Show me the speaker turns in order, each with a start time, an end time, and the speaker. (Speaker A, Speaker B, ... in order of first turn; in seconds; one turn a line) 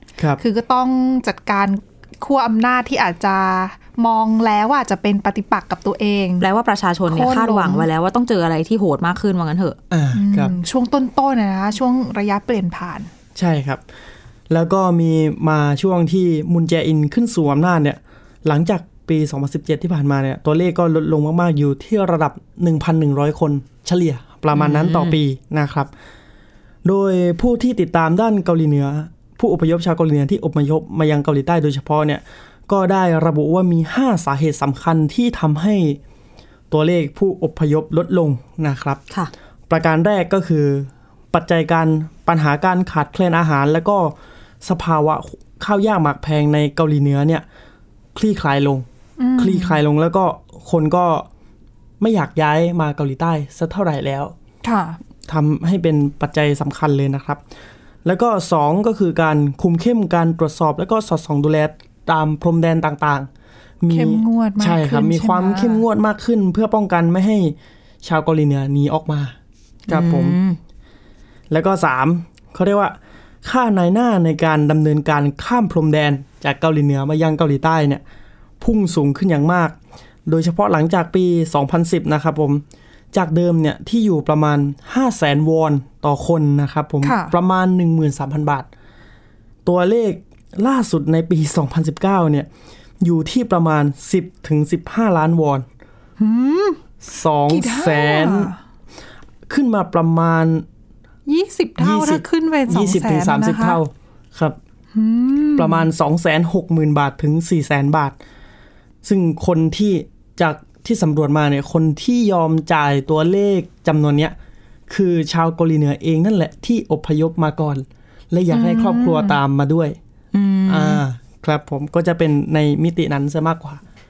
Speaker A: 0.4-6.5
Speaker B: 6.4-9.8
Speaker A: 7.1-7.9
Speaker C: 9.9-10.6
Speaker A: 10.1-13.1
Speaker C: 13.3-13.8
Speaker C: 14.5-25.9
Speaker B: 24.5-25.2
Speaker C: 26.9-36.0
Speaker C: 36.7-39.0
Speaker C: 39.7-47.5
Speaker C: 48.1-48.9
Speaker A: 49.2-49.8
Speaker C: 49.4-51.3
Speaker C: 52.0-54.4
Speaker A: 54.6-55.0
Speaker C: 55.3-57.4
Speaker C: 58.0-63.3
Speaker C: 63.8-69.4
Speaker A: 63.9-65.8
Speaker C: 69.9-70.4
Speaker B: 69.9-70.6
Speaker C: 71.5-78.0
Speaker C: 78.6-88.7
Speaker A: 87.0-87.3
Speaker C: 89.7-92.5
Speaker C: 93.0-95.7
Speaker A: 96.2-96.8
Speaker C: 97.0-98.5
Speaker A: 97.5-98.6
Speaker C: 99.5-100.7
Speaker A: 101.3-103.8
Speaker C: 101.8-104.6
Speaker A: 104.9-105.9
Speaker C: 105.6-108.2
Speaker C: 109.0-114.4
Speaker C: 114.9-120.0
Speaker A: 118.5-119.4
Speaker B: 120.3-121.0
Speaker C: 120.7-123.8